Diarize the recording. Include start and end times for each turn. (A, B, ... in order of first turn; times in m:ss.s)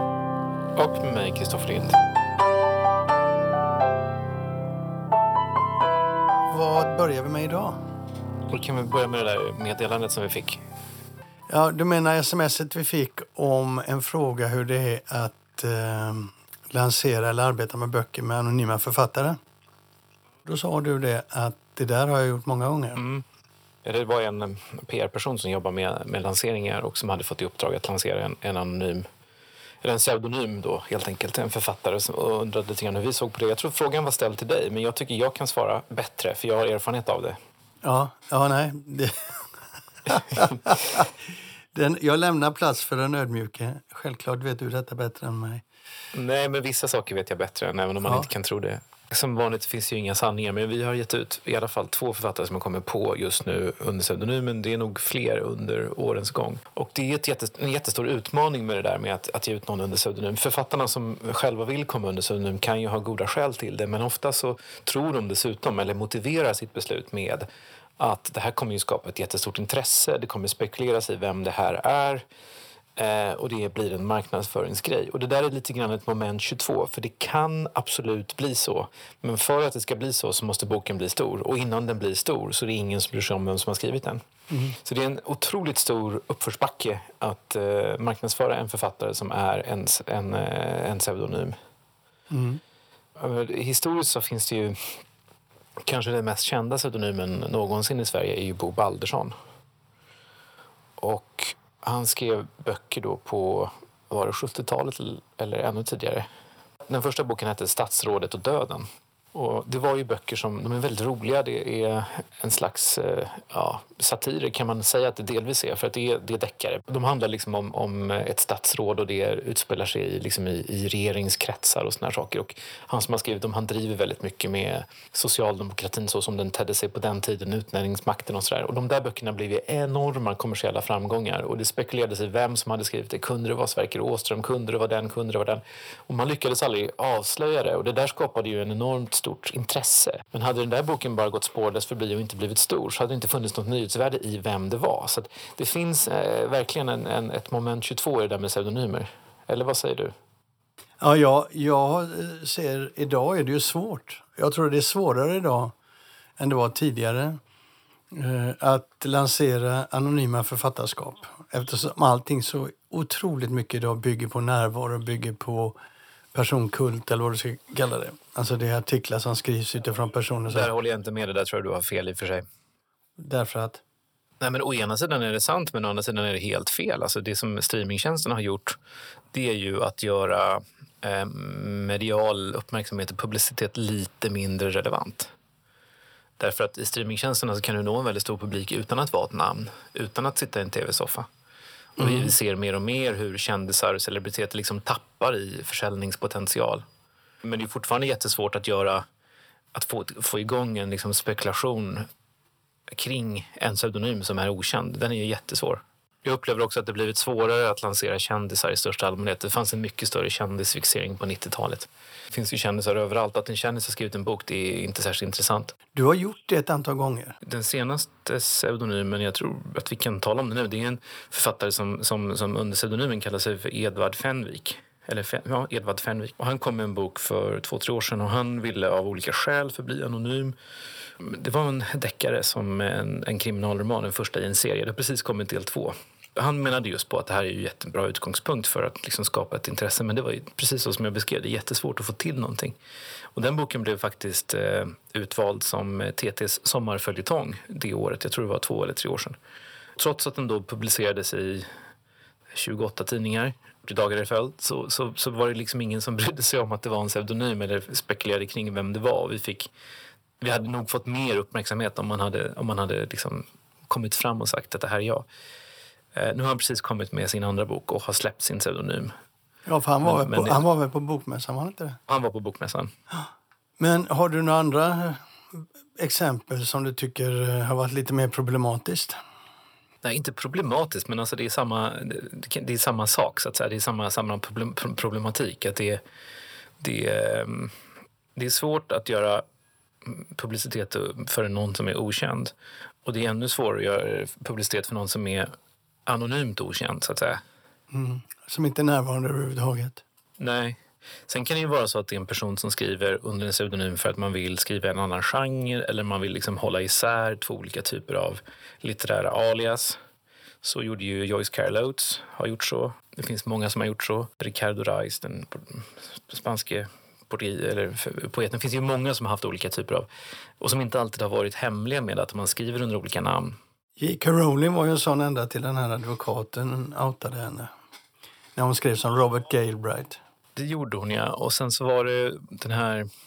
0:00.8-0:02.0 A
0:06.5-0:07.8 B
0:08.5-0:10.6 A
0:11.5-0:19.4 B
0:20.4-0:23.0 B
0:23.0-0:23.2 A
0:23.8-0:29.1 A
0:29.8-0:37.4 A
0:37.8-0:39.4 B
0:40.1-0:41.1 B
0:41.7-0:45.6 B
0:46.1-1:07.5 A
0:48.0-0:48.3 B
1:08.0-1:12.2 A
1:13.0-1:24.2 A
1:24.5-1:24.8 B
1:24.8-1:31.6 A
1:32.3-1:32.6 B
1:33.2-1:35.0 A
1:35.8-1:39.3 A
1:41.0-1:46.3 A
1:46.9-2:30.1 A
2:31.0-2:35.8 B
2:36.4-2:37.4 B
2:38.1-2:45.8 B
2:46.3-2:50.7 B
2:50.5-2:52.4 A
2:53.2-2:53.8 B
2:54.4-2:58.8 A
2:59.3-3:05.3 A
3:06.4-3:11.3 A
3:12.0-3:12.3 B
3:12.0-3:16.8 A
3:17.4-3:19.0 A
3:19.7-3:22.1 A
3:22.9-3:35.7 A
3:35.9-3:37.4 B
3:37.4-3:50.6 A
3:51.2-4:02.8 A
4:03.4-4:09.4 A
4:10.0-4:11.7 A
4:12.5-4:19.7 A
4:20.4-4:25.3 A
4:26.1-4:29.1 A
4:29.7-4:32.0 B
4:30.0-4:30.6 A
4:32.1-4:32.9 A
4:33.1-4:39.2 B
4:40.0-4:46.0 A
4:46.8-4:47.7 A
4:48.4-4:49.4 A
4:50.0-4:52.5 A
4:53.0-4:55.5 A
4:56.1-4:57.4 A
4:57.9-5:00.0 B
5:00.4-5:10.0 A
5:10.6-5:20.1 A
5:20.6-5:23.6 A
5:24.0-5:27.7 B
5:28.6-5:30.2 B
5:30.6-5:33.1 A